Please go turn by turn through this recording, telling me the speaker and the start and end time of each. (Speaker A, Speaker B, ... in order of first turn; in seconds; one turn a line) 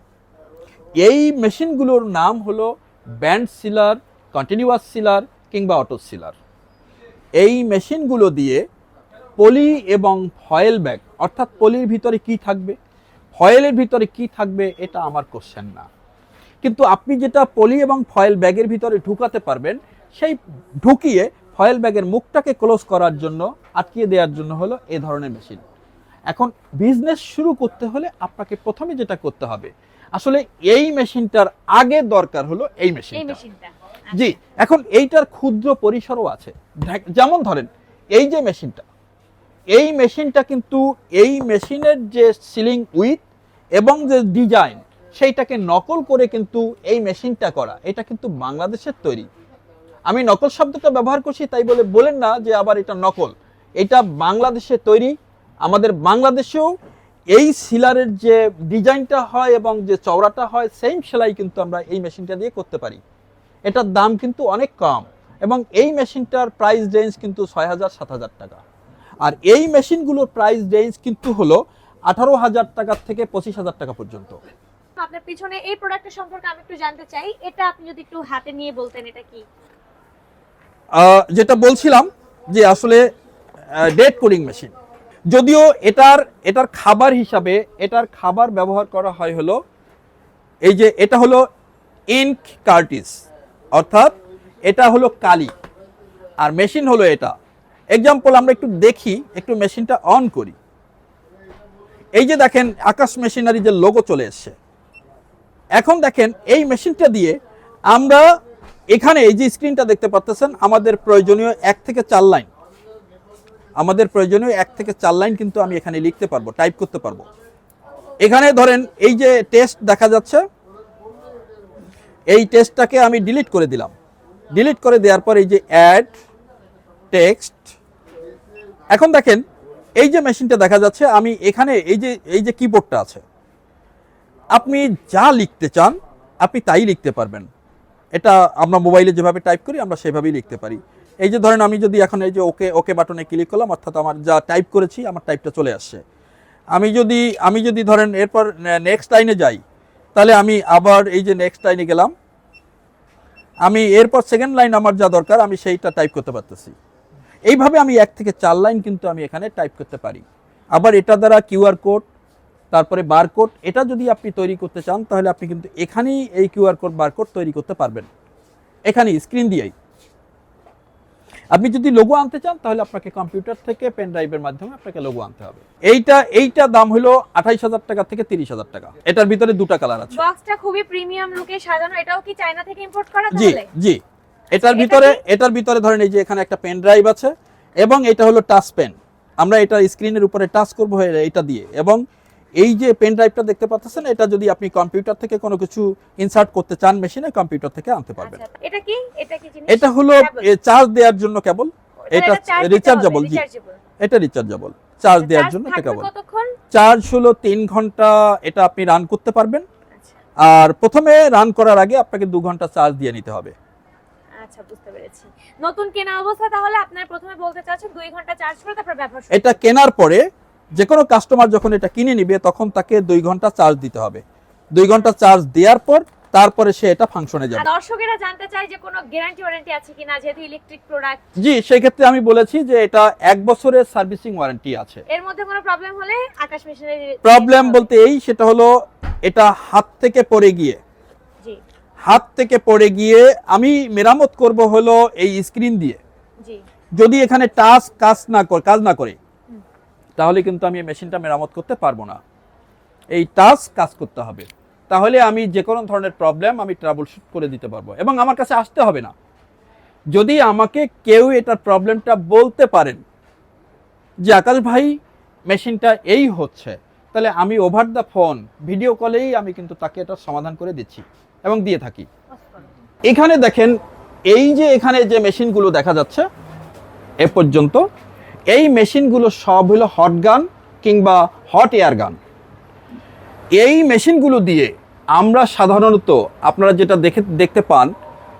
Speaker A: 1.0-2.7
Speaker A: 3.2-6.4
Speaker A: 7.4-8.6
Speaker A: 9.4-12.8
Speaker A: 13.3-15.9
Speaker A: 16.6-25.6
Speaker A: 26.3-33.4
Speaker B: 33.1-34.3
Speaker A: 34.1-38.9
Speaker A: 39.7-43.2
Speaker A: 43.8-49.3
Speaker A: 50.1-55.1
Speaker A: 55.6-56.7
Speaker A: 57.3-63.0
Speaker A: 63.7-68.6
Speaker A: 69.2-74.4
Speaker B: 75.0-79.4
Speaker A: 81.0-83.0
Speaker A: 83.8-84.7
Speaker A: 85.3-89.6
Speaker A: 90.7-91.4
Speaker A: 92.1-93.2
Speaker A: 93.7-94.1
Speaker A: 94.7-95.5
Speaker A: 96.4-97.3
Speaker A: 97.9-100.5
Speaker A: 102.2-104.5
Speaker A: 105.8-107.3
Speaker A: 107.9-108.2
Speaker A: 108.9-112.5
Speaker A: 113.8-117.3
Speaker A: 118.2-120.4
Speaker A: 122.3-123.9
Speaker A: 124.5-126.1
Speaker A: 127.1-127.7
Speaker A: 128.9-129.4
Speaker A: 130.0-133.2
Speaker A: 134.6-137.5
Speaker A: 138.2-146.0
Speaker A: 146.7-149.6
Speaker A: 150.2-152.1
Speaker A: 153.6-156.7
Speaker A: 157.5-160.2
Speaker A: 160.7-162.0
Speaker A: 162.7-168.1
Speaker A: 168.9-169.7
Speaker A: 171.5-180.2
Speaker B: 180.1-183.7
Speaker A: 183.3-184.0
Speaker A: 184.5-192.0
Speaker B: 184.6-185.2
Speaker A: 192.6-198.4
Speaker B: 198.2-200.4
Speaker A: 199.7-203.4
Speaker B: 202.0-203.8
Speaker A: 204.0-206.1
Speaker B: 205.1-206.5
Speaker A: 206.7-209.6
Speaker A: 210.4-213.5
Speaker B: 214.4-219.6
Speaker A: 219.3-220.2
Speaker A: 220.8-224.2
Speaker A: 224.7-227.7
Speaker B: 227.5-231.2
Speaker A: 231.4-235.0
Speaker B: 235.1-237.9
Speaker A: 237.2-238.7
Speaker A: 239.2-240.8
Speaker A: 242.0-246.0
Speaker A: 247.0-249.2
Speaker A: 250.2-252.2
Speaker A: 253.1-259.1
Speaker A: 260.1-263.0
Speaker A: 264.2-264.9
Speaker A: 265.5-272.1
Speaker B: 272.4-272.6
Speaker A: 273.1-273.7
Speaker A: 274.3-276.2
Speaker A: 277.2-277.8
Speaker A: 278.5-282.2
Speaker A: 283.6-287.9